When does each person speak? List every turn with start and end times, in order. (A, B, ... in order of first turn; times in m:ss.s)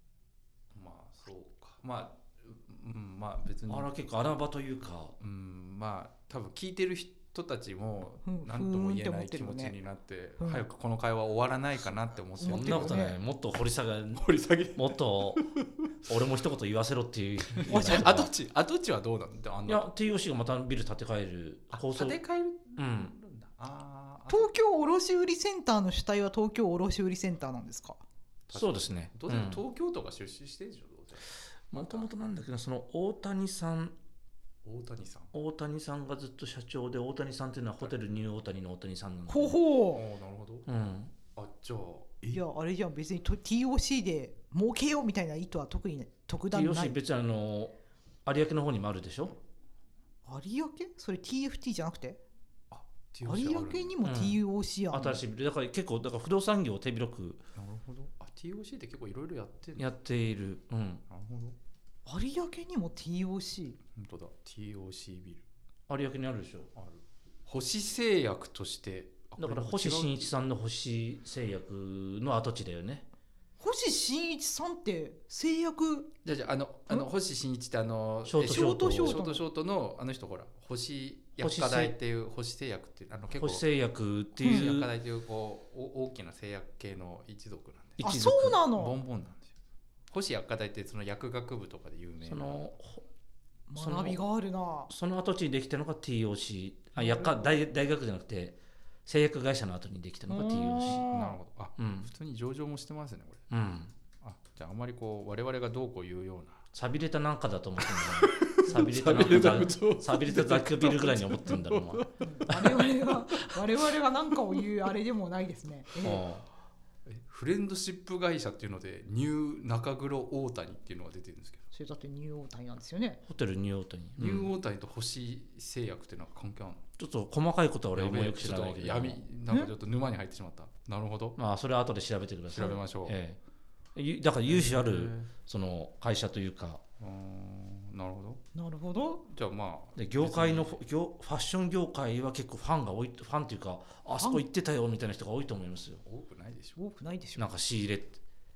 0:00.7-0:03.9 A
0:03.7-0:05.2 B
0:05.2-0:13.0 A
0:08.2-0:09.8 C
0:10.4-0:10.6 C
0:12.4-0:13.2 C
0:12.5-0:15.5 B
0:14.2-0:15.9 A
0:16.0-0:18.3 B
0:17.5-0:19.9 A
0:17.7-0:18.0 C
0:19.7-0:22.2 B
0:21.7-0:24.5 A
0:22.8-0:23.1 B
0:24.3-0:28.0 C
0:28.5-0:32.1 A
0:28.5-0:29.6 B
0:31.7-0:34.0 B
0:34.6-0:35.3 A
0:35.3-0:39.6 B
0:39.3-0:40.0 C
0:39.9-0:40.7 A
0:40.7-0:41.1 B
0:41.4-0:42.4 A
0:42.3-0:47.0 C
0:46.5-0:49.4 B
0:50.2-0:52.2 C
0:52.7-0:54.0 A
0:53.2-0:55.2 C
0:54.0-0:57.4 B
0:57.6-0:59.9 A
0:59.8-1:01.0 B
1:01.1-1:01.6 A
1:02.1-1:03.8 C
1:04.0-1:05.4 A
1:05.9-1:06.7 B
1:06.8-1:10.3 A
1:09.4-1:13.1 B
1:13.6-1:16.1 C
1:16.2-1:23.6 A
1:18.3-1:19.2 B
1:18.4-1:19.4 C
1:21.4-1:21.9 B
1:23.4-1:24.9 B
1:24.3-1:28.1 A
1:28.0-1:28.6 B
1:28.0-1:29.0 C
1:28.7-1:29.5 A
1:30.1-1:32.6 A
1:32.2-1:33.0 B
1:33.7-1:34.9 C
1:33.8-1:34.2 B
1:34.9-1:41.1 B
1:40.3-1:41.4 C
1:41.1-1:43.4 A
1:41.8-1:42.1 B
1:43.5-1:43.9 B
1:44.2-1:46.6 A
1:46.7-1:52.9 B
1:47.8-1:52.2 A
1:49.4-1:49.7 C
1:52.2-1:56.2 C
1:56.0-1:56.4 B
1:57.1-2:01.7 A
2:01.7-2:03.2 C
2:03.3-2:04.5 B
2:04.2-2:06.8 A
2:07.0-2:09.2 B
2:07.9-2:11.4 A
2:11.4-2:13.4 B
2:12.5-2:13.2 A
2:14.0-2:16.8 B
2:14.5-2:15.3 A
2:17.0-2:18.4 A
2:18.6-2:19.2 C
2:19.3-2:20.8 A
2:20.0-2:26.0 B
2:24.2-2:24.4 C
2:26.0-2:26.8 A
2:26.8-2:27.5 C
2:27.4-2:28.2 B